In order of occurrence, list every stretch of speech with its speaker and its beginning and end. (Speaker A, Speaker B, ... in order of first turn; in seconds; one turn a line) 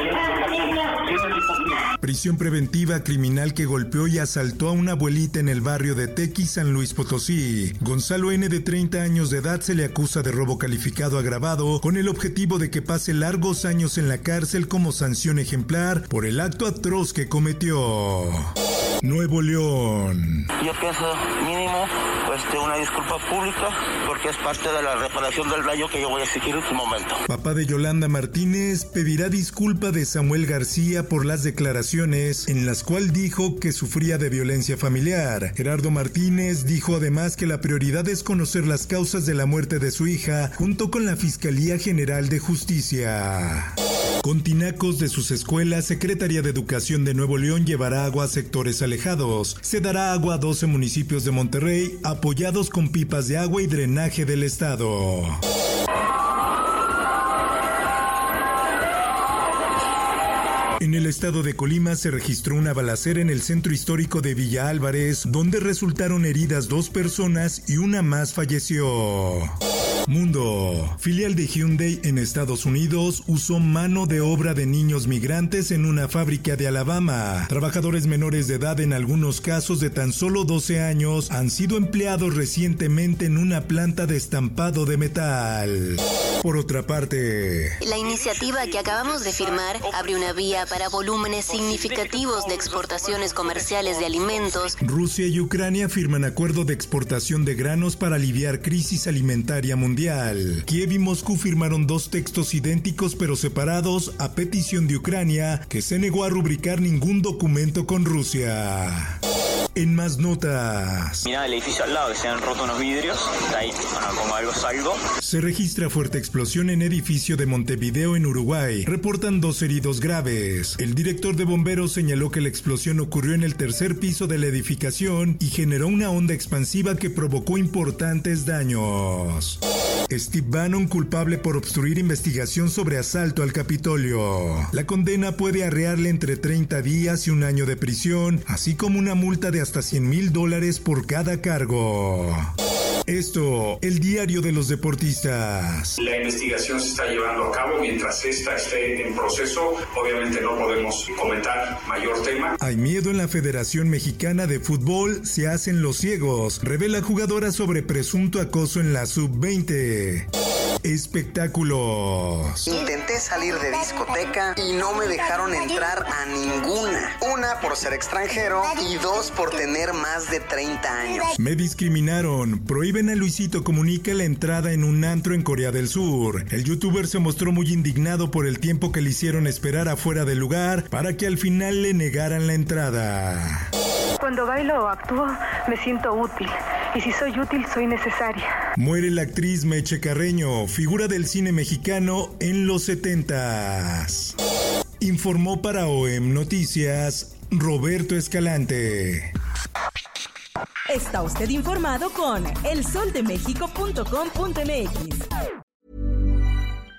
Speaker A: 2.0-20.5
Speaker B: 20.6-27.2
Speaker A: 27.3-55.4
Speaker A: 60.8-69.5
Speaker A: 70.1-87.8
Speaker C: 87.8-94.8
Speaker A: 94.8-109.2
Speaker A: 109.8-111.3
Speaker D: 111.3-115.0
Speaker A: 115.2-129.6
Speaker A: 130.1-142.5
Speaker A: 143.1-146.0
Speaker E: 146.0-152.5
Speaker A: 152.6-160.3
Speaker A: 160.8-162.7
Speaker F: 162.7-171.3
Speaker A: 171.4-183.7
Speaker G: 184.2-188.5
Speaker A: 188.8-194.3
Speaker A: 195.0-199.3
Speaker H: 200.9-205.3